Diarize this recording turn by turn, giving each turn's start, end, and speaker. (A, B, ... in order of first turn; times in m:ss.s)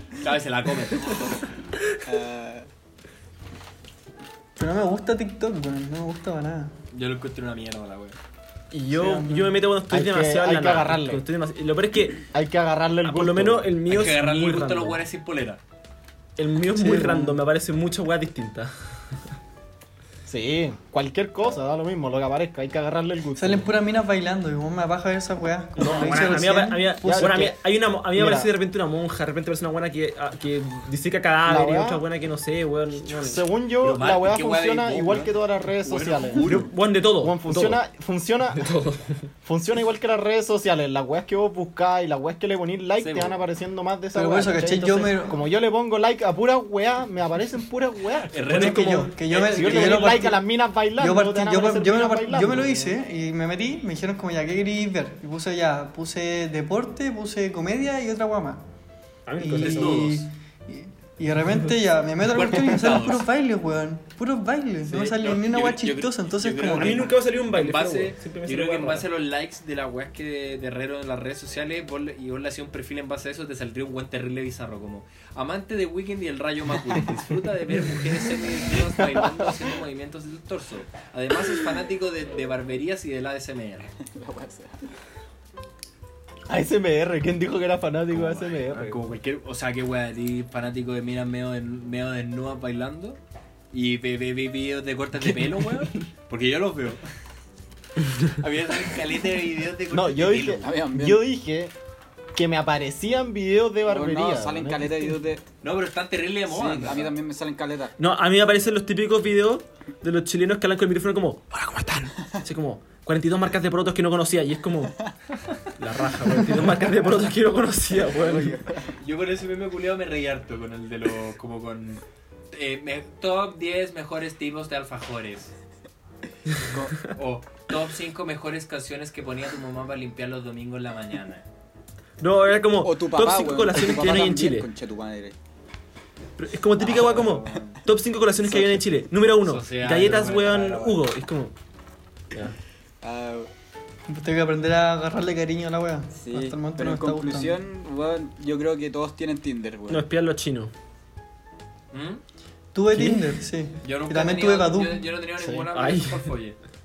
0:00.2-0:01.7 A
0:02.0-0:02.7 B
0:04.6-0:06.7 C
0:06.9-0:08.2 A
0:08.7-0:12.3 D
0:08.9-0:09.6 C
0:09.9-0:11.2 E
0:12.3-0:13.7 E
0:13.0-0:15.0 D
0:13.9-0:15.6 A
0:16.4-0:19.2 D
0:16.7-0:17.4 C
0:20.2-0:23.7 E
0:23.4-0:27.5 C
0:25.8-0:33.4 D
0:26.1-0:26.4 E
0:27.0-0:27.6 E
0:28.1-0:28.5 E
0:31.4-0:32.0 E
0:33.0-0:38.7 E
0:33.8-0:36.7 A
0:36.4-0:37.8 D
0:38.5-0:39.2 D
0:39.4-0:48.4 E
0:43.0-0:43.4 A
0:44.1-0:45.4 C
0:48.3-0:50.2 A
0:48.4-0:49.2 D
0:48.5-0:50.4 C
0:49.4-0:53.0 E
0:51.0-0:58.6 C
0:59.2-1:00.3 D
0:59.4-1:07.1 C
1:02.3-1:03.3 A
1:04.9-1:23.9 A
1:06.6-1:09.1 D
1:19.1-1:19.5 E
1:24.0-1:24.8 B
1:26.5-1:29.0 E
1:28.1-1:33.2 A
1:33.7-1:37.0 A
1:38.3-1:40.6 A
1:39.9-1:41.7 E
1:40.6-1:41.2 B
1:42.3-1:45.1 E
1:43.8-1:45.4 B
1:45.6-1:47.1 A
1:46.5-1:47.9 B
1:48.0-1:55.0 D
1:55.8-1:58.6 D
1:57.9-1:58.9 B
1:59.0-2:05.5 A
2:06.7-2:07.0 B
2:07.0-2:11.4 A
2:12.2-2:14.7 D
2:12.8-2:15.4 B
2:16.4-2:21.5 D
2:16.8-2:17.8 B
2:17.0-2:17.8 A
2:18.4-2:18.8 B
2:19.4-2:21.0 A
2:23.0-2:23.5 B
2:24.1-2:27.6 C
2:26.1-2:30.0 B
2:29.9-2:30.7 D
2:31.9-2:32.2 A
2:32.7-2:35.1 C
2:32.9-2:33.3 D
2:33.8-2:36.6 A
2:35.7-2:36.3 D